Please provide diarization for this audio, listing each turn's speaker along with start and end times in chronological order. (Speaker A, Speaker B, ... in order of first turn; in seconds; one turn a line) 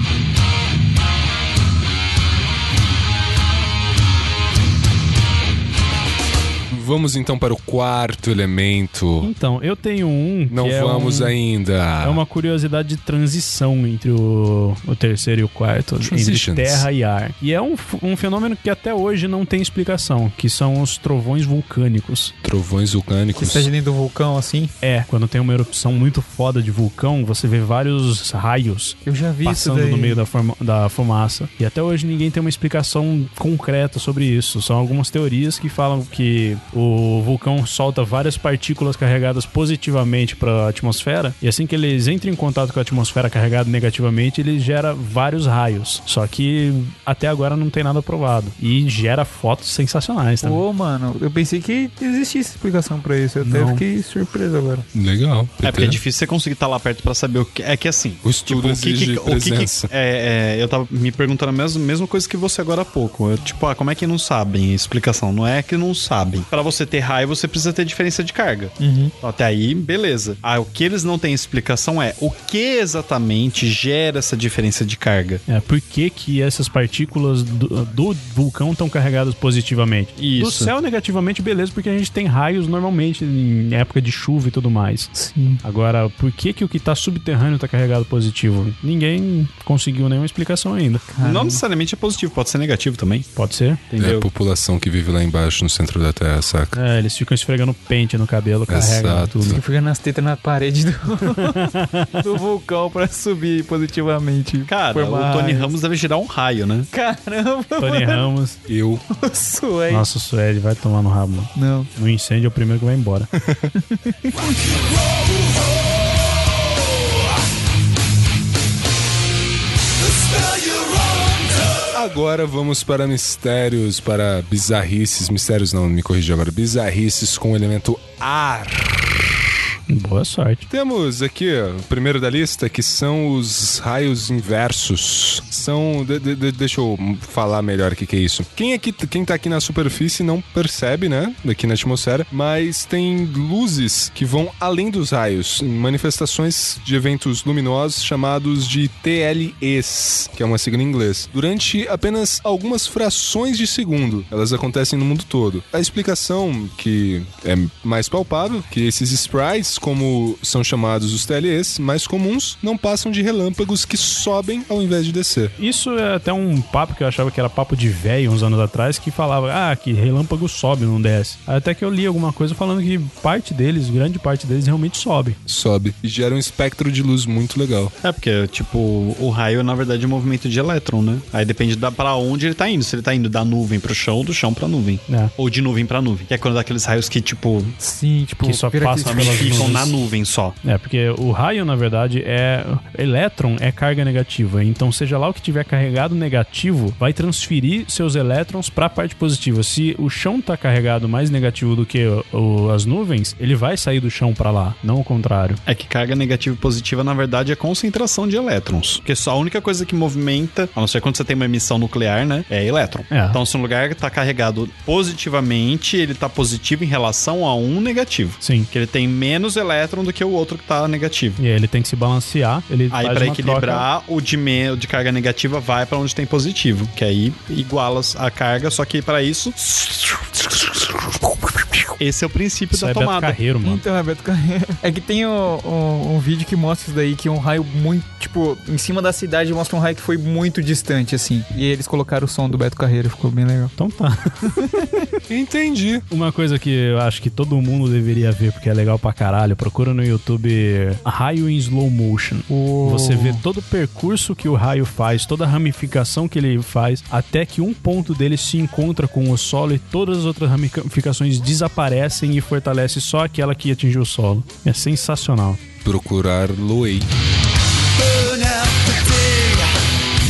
Speaker A: 6.7-9.3
Speaker B: 9.2-11.4
Speaker A: 10.5-12.2
Speaker B: 12.0-22.3
Speaker A: 16.0-16.9
Speaker A: 22.4-23.7
Speaker C: 23.4-24.8
Speaker B: 24.8-50.6
Speaker C: 29.0-30.2
Speaker C: 50.4-54.9
Speaker B: 53.4-53.8
Speaker A: 54.9-56.0
Speaker D: 55.6-75.4
Speaker A: 58.2-59.9
Speaker C: 68.8-69.1
Speaker B: 75.5-91.0
Speaker D: 80.2-80.7
Speaker C: 85.1-85.6
Speaker C: 91.2-91.6
Speaker D: 91.2-93.3
Speaker B: 93.4-93.8
Speaker D: 93.9-94.3
Speaker A: 94.0-96.8
Speaker B: 96.7-99.6
Speaker A: 98.7-99.6
Speaker C: 99.5-105.8
Speaker B: 101.4-102.2
Speaker D: 104.7-106.9
Speaker C: 106.9-108.3
Speaker B: 107.8-108.6
Speaker A: 108.7-109.0
Speaker C: 109.2-110.1
Speaker B: 109.9-113.3
Speaker C: 111.5-111.9
Speaker C: 113.8-114.5
Speaker E: 120.4-120.9
Speaker A: 121.9-129.4
Speaker B: 129.9-130.7
Speaker A: 130.7-165.5
Speaker B: 165.6-175.4
Speaker A: 175.5-177.9
Speaker D: 178.0-187.8
Speaker C: 187.8-189.8
Speaker B: 188.4-190.0
Speaker D: 189.0-190.6
Speaker B: 190.6-205.6
Speaker D: 205.7-221.4
Speaker B: 213.1-213.4
Speaker B: 218.4-218.7
Speaker B: 221.4-223.9
Speaker D: 222.9-230.9
Speaker D: 232.0-233.4
Speaker B: 232.7-233.8
Speaker C: 233.6-243.7
Speaker B: 243.8-244.8
Speaker A: 245.3-246.0
Speaker B: 246.1-265.6
Speaker C: 252.5-253.4
Speaker A: 265.8-267.1
Speaker E: 268.0-269.7